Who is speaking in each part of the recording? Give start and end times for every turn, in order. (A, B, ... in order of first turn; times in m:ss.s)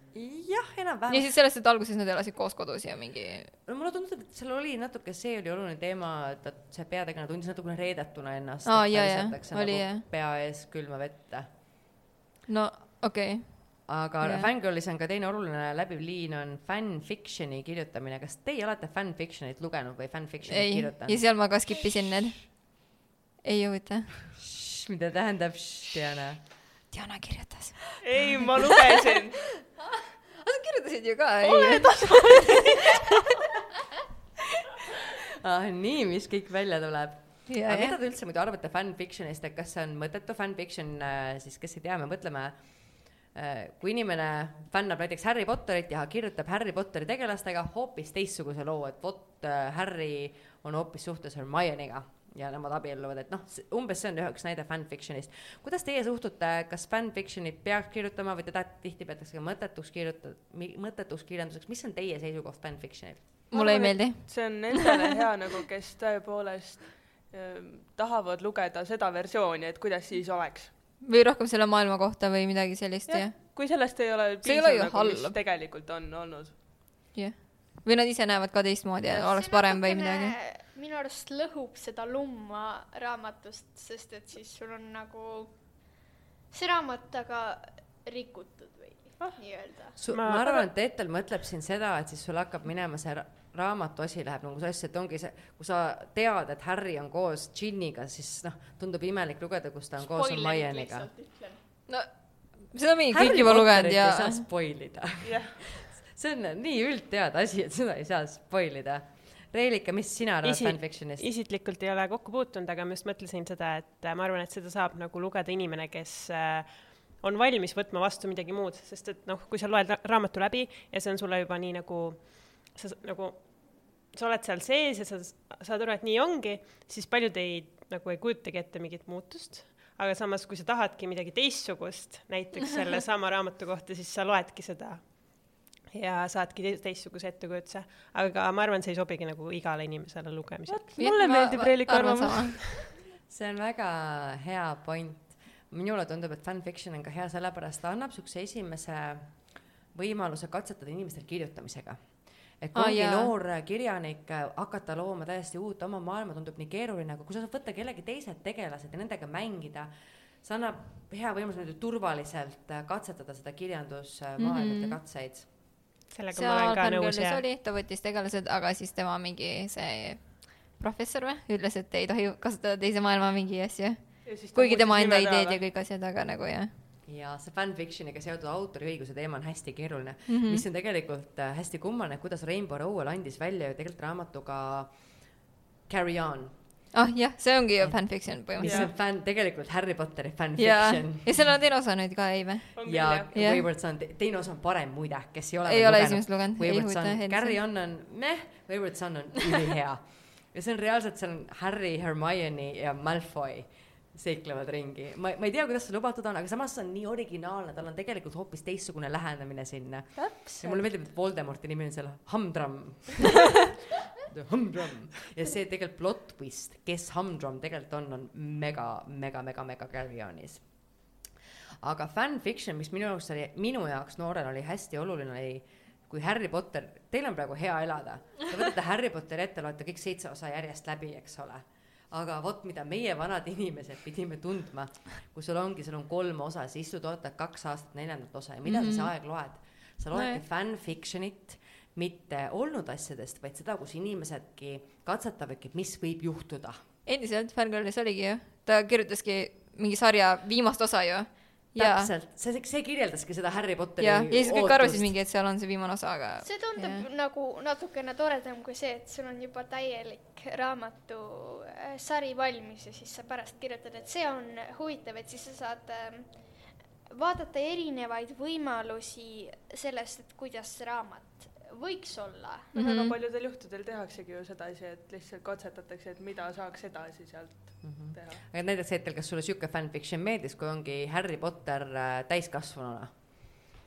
0:00.1-0:01.3 A
0:01.1-0:03.5 B
0:03.6-0:11.5 A
0:08.6-0:10.0 B
0:12.5-0:14.5 B
0:13.9-0:21.6 A
0:20.5-0:24.2 B
0:24.4-0:26.4 A
0:26.9-0:28.4 B
0:28.0-0:29.4 C
0:30.4-0:32.6 B
0:31.4-0:32.7 C
0:35.4-1:03.3 A
0:37.5-0:38.0 B
1:03.5-1:10.7 C
1:03.5-1:05.0 B
1:11.0-1:13.7 B
1:13.0-1:16.5 C
1:14.4-1:15.4 B
1:17.1-1:20.4 B
1:19.1-1:29.9 D
1:30.0-1:41.1 A
1:30.1-1:30.7 E
1:40.0-1:41.6 D
1:41.9-1:44.4 B
1:43.1-1:51.3 A
1:45.2-1:45.6 C
1:50.4-2:20.8 E
2:20.7-2:22.8 C
2:21.0-2:22.7 B
2:23.3-2:45.5 A
2:32.7-2:33.3 B
2:44.4-2:45.0 B
2:46.1-2:47.4 E
2:46.3-2:56.7 B
2:54.2-2:55.6 C
2:57.0-3:06.6 A
3:00.3-3:00.6 B
3:06.9-3:08.8 B
3:07.8-3:11.5 A
3:08.6-3:08.9 C
3:10.6-3:12.7 B
3:12.7-3:13.3 C
3:12.8-3:33.6 A
3:13.3-3:13.6 B
3:15.6-3:17.6 B
3:30.1-3:31.0 C
3:34.2-3:41.1 A
3:41.8-4:06.8 A
3:58.6-3:59.1 B
4:00.1-4:00.4 B
4:07.0-4:12.1 B
4:11.7-4:15.1 A
4:14.0-4:17.0 B
4:16.4-4:32.7 D
4:32.7-4:33.2 B
4:32.7-4:38.4 C
4:37.8-4:43.1 A